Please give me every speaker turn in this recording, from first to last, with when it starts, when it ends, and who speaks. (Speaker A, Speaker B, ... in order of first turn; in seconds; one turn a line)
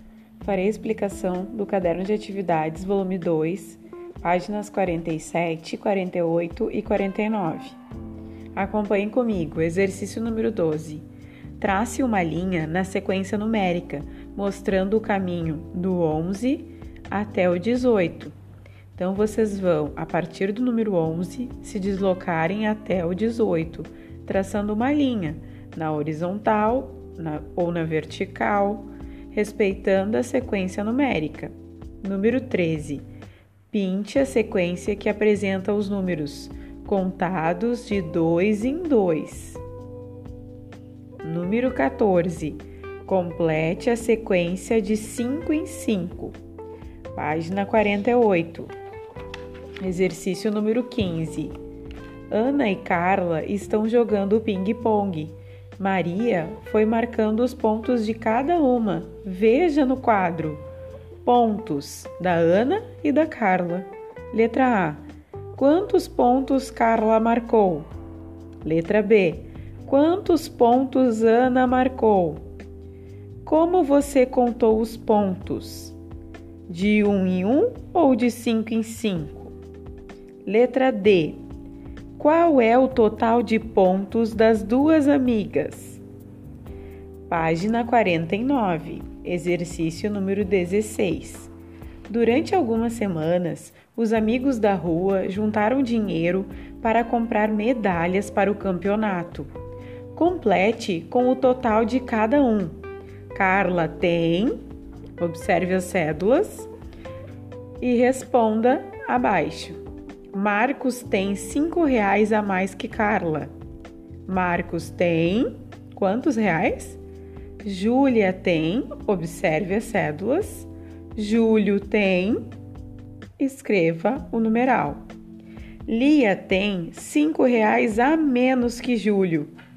Speaker A: 0.4-7.8
Speaker A: 8.5-11.0
Speaker A: 11.6-18.3
Speaker A: 18.9-33.0
Speaker A: 33.7-39.6
Speaker A: 41.2-46.4
Speaker A: 47.1-48.7
Speaker A: 49.8-51.5
Speaker A: 52.3-60.6
Speaker A: 61.2-65.0
Speaker A: 65.5-67.9
Speaker A: 68.6-72.4
Speaker A: 73.4-76.0
Speaker A: 76.7-79.5
Speaker A: 80.5-81.4
Speaker A: 82.2-86.0
Speaker A: 87.3-91.5
Speaker A: 92.1-99.5
Speaker A: 100.1-102.8
Speaker A: 103.3-104.6
Speaker A: 105.2-106.7
Speaker A: 107.8-109.8
Speaker A: 110.3-113.5
Speaker A: 114.2-117.0
Speaker A: 117.6-122.5
Speaker A: 123.4-125.0
Speaker A: 125.8-129.5